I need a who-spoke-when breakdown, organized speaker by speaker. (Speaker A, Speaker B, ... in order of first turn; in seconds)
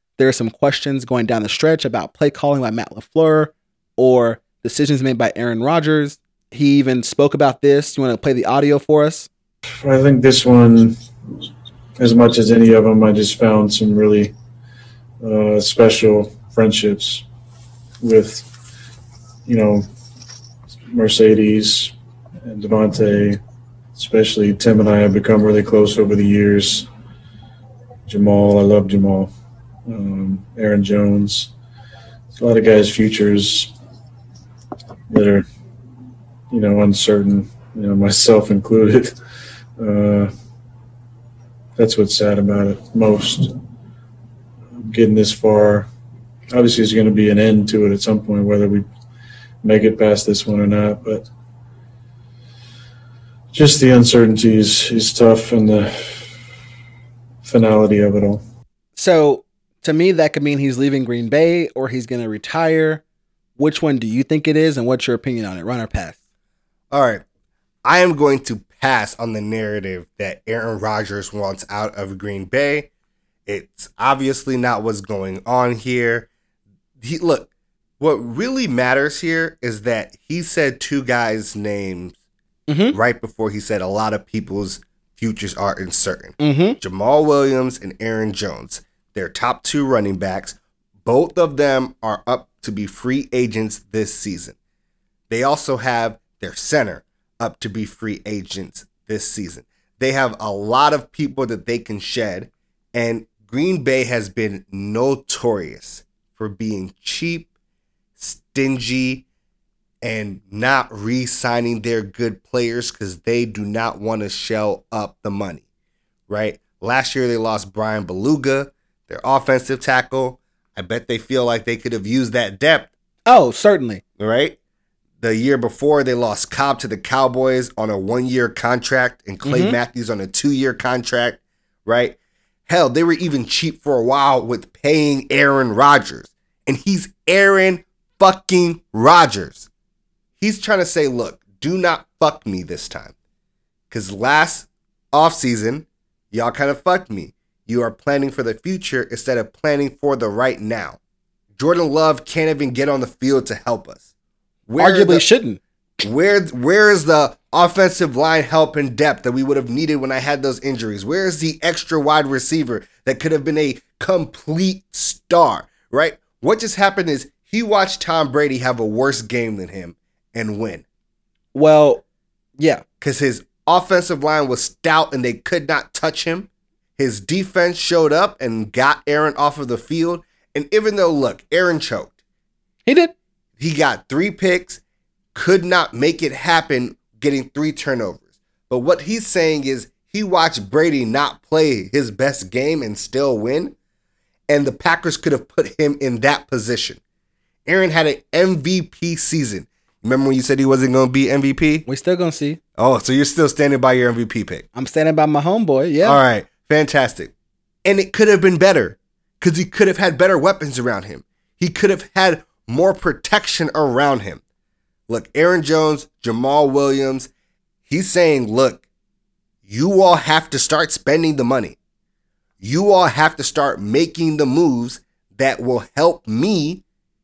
Speaker A: 0.2-9.3, 59.0-63.0, 63.6-66.2, 82.7-83.0, 86.4-86.8, 123.3-124.0, 129.4-129.8, 154.8-155.6, 171.5-172.0, 172.6-172.8, 182.9-183.1, 201.9-202.6, 204.8-206.2
Speaker B: 9.8-11.0, 12.0-14.3, 15.2-17.2, 18.0-18.5, 19.5-19.9, 20.9-23.4, 24.0-26.9, 28.1-29.3, 29.9-31.5, 32.4-33.7, 35.1-35.5, 36.5-39.1, 39.8-40.3, 41.8-43.5, 44.8-45.9, 46.5-48.9, 49.6-51.3, 53.5-56.3, 57.4-58.4
Speaker C: 66.9-67.2, 67.8-72.9, 73.5-76.3, 77.0-82.2, 82.9-94.6, 95.3-107.5, 108.2-109.2, 110.0-115.6, 116.3-122.9, 124.2-124.6, 125.2-132.2, 132.7-139.7, 140.4-143.1, 143.9-151.0, 151.6-154.0, 154.7-155.2, 156.0-170.8, 173.0-182.1, 183.6-184.8, 185.3-193.8, 194.5-197.0, 197.7-201.9, 202.8-204.7, 206.0-207.3, 207.8-214.4, 215.1-217.3, 217.9-218.8, 219.7-221.8, 222.6-226.8